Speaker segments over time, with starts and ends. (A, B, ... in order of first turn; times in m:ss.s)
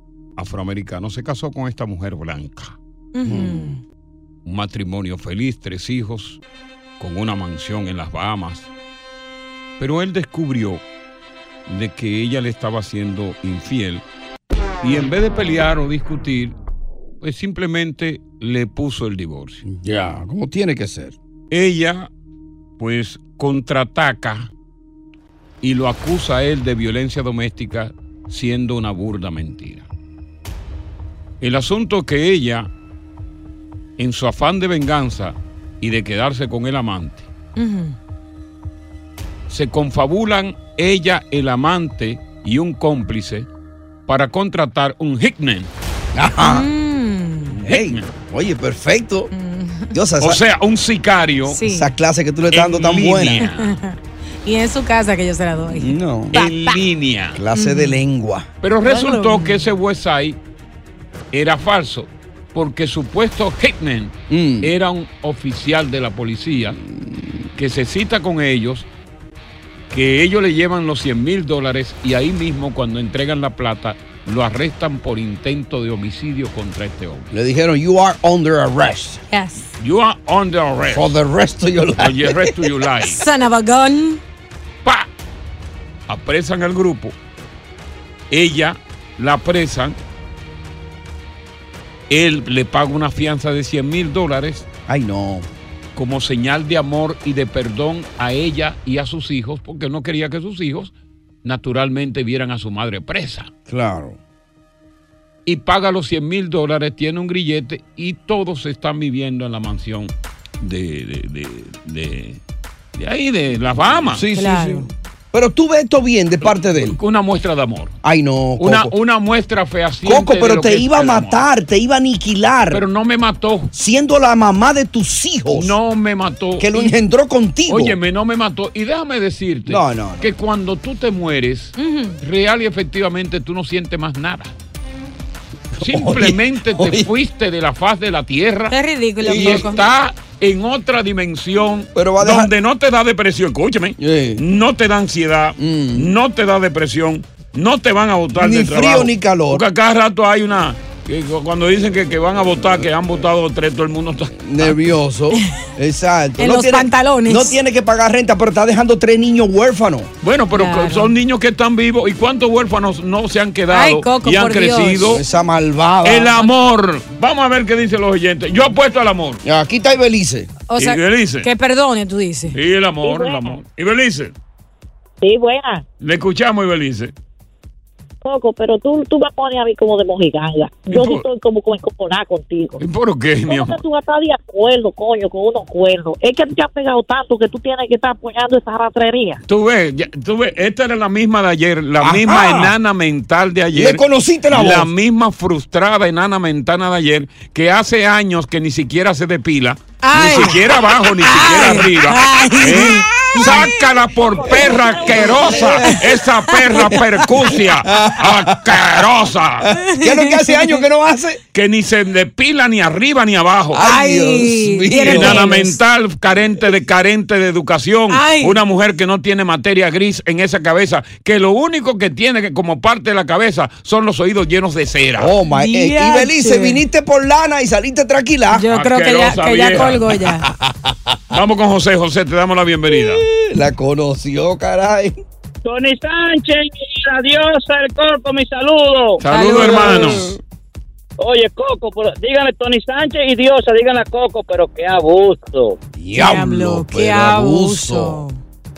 0:00.4-0:02.8 A
0:03.1-0:03.8 B
0:03.2-0:03.8 C
0:04.4-0:06.4 A
0:07.0-0:08.7 A
0:09.8-0:10.8 A
0:11.7-0:14.0 A
0:14.8-0:16.6 A
0:17.2-0:19.6 A
0:19.6-0:21.2 C
0:21.5-0:22.1 A
0:22.8-0:24.5 A
0:25.6-0:29.9 A
0:31.4-0:32.7 A
0:34.0-0:37.3 A
0:37.6-0:38.0 B
0:39.5-0:43.5 A
0:44.1-0:45.7 A
0:46.1-0:46.7 C
0:46.4-0:47.6 B
0:47.5-0:48.1 A
0:47.6-0:49.3 C
0:49.3-0:50.0 B
0:49.9-0:50.4 C
0:50.2-0:51.6 A
0:51.5-0:51.9 B
0:51.6-0:53.4 C
0:52.5-0:53.8 A
0:53.3-0:56.8 B
0:55.7-0:56.3 C
0:56.3-0:57.4 A
0:57.3-0:58.5 C
0:57.5-0:58.0 B
0:58.6-1:00.4 A
0:58.8-0:59.7 B
1:01.3-1:06.8 A
1:04.3-1:04.7 C
1:06.8-1:07.5 C
1:07.5-1:08.9 A
1:09.9-1:17.3 A
1:17.3-1:19.2 C
1:19.3-1:19.7 B
1:19.8-1:21.1 A
1:20.9-1:22.7 C
1:22.0-1:23.2 A
1:23.0-1:24.2 B
1:26.1-1:27.1 A
1:28.3-1:30.0 A
1:32.1-1:34.7 A
1:34.9-1:35.5 C
1:35.9-1:40.9 A
1:41.4-1:43.5 A
1:43.7-1:44.2 C
1:45.4-1:52.4 A
1:53.0-1:54.2 A
1:54.1-1:57.0 C
1:54.3-1:54.9 B
1:56.4-1:58.0 A
1:58.0-1:58.9 C
1:58.6-2:01.4 A
2:00.0-2:02.8 C
2:02.7-2:03.7 A
2:03.7-2:05.8 C
2:05.5-2:06.9 A
2:06.6-2:08.0 C
2:07.7-2:14.5 A
2:09.6-2:10.3 C
2:11.8-2:12.2 B
2:15.7-2:17.1 C
2:15.8-2:34.8 A
2:18.7-2:19.8 B
2:19.2-2:19.7 C
2:21.9-2:22.5 C
2:24.0-2:24.4 C
2:25.6-2:26.1 C
2:28.4-2:29.6 C
2:34.4-2:40.1 C
2:36.4-2:37.6 B
2:40.2-2:45.2 A
2:40.5-2:41.1 B
2:43.7-2:45.2 B
2:45.0-2:46.4 C
2:46.0-2:49.4 A
2:49.4-2:50.5 C
2:50.7-2:52.6 B
2:50.8-2:51.5 A
2:52.5-2:54.3 A
2:53.0-2:53.6 D
2:55.2-2:55.8 D
2:56.0-2:57.1 A
2:58.2-3:02.8 D
3:00.9-3:01.2 A
3:02.8-3:03.8 A
3:03.5-3:09.4 D
3:09.4-3:29.7 A
3:12.0-3:12.7 C
3:13.7-3:14.9 C
3:20.0-3:23.8 B
3:20.2-3:20.6 C
3:22.4-3:23.7 C
3:24.1-3:25.8 D
3:24.6-3:26.1 C
3:26.7-3:29.0 C
3:29.6-3:31.4 C
3:29.8-3:30.8 B
3:31.5-3:33.8 A
3:33.7-3:35.5 C
3:33.8-3:35.8 B
3:35.0-3:45.3 A
3:38.1-3:38.6 B
3:45.2-3:48.7 C
3:45.5-3:46.8 B
3:48.5-3:50.5 B
3:48.7-3:50.0 A
3:49.7-3:51.2 C
3:51.3-3:53.2 A
3:52.9-3:55.2 C
3:55.6-3:59.2 E
3:59.2-4:00.3 A
3:59.2-4:00.3 B
3:59.5-4:00.4 C
4:01.2-4:05.8 E
4:06.0-4:08.2 C
4:06.1-4:08.4 B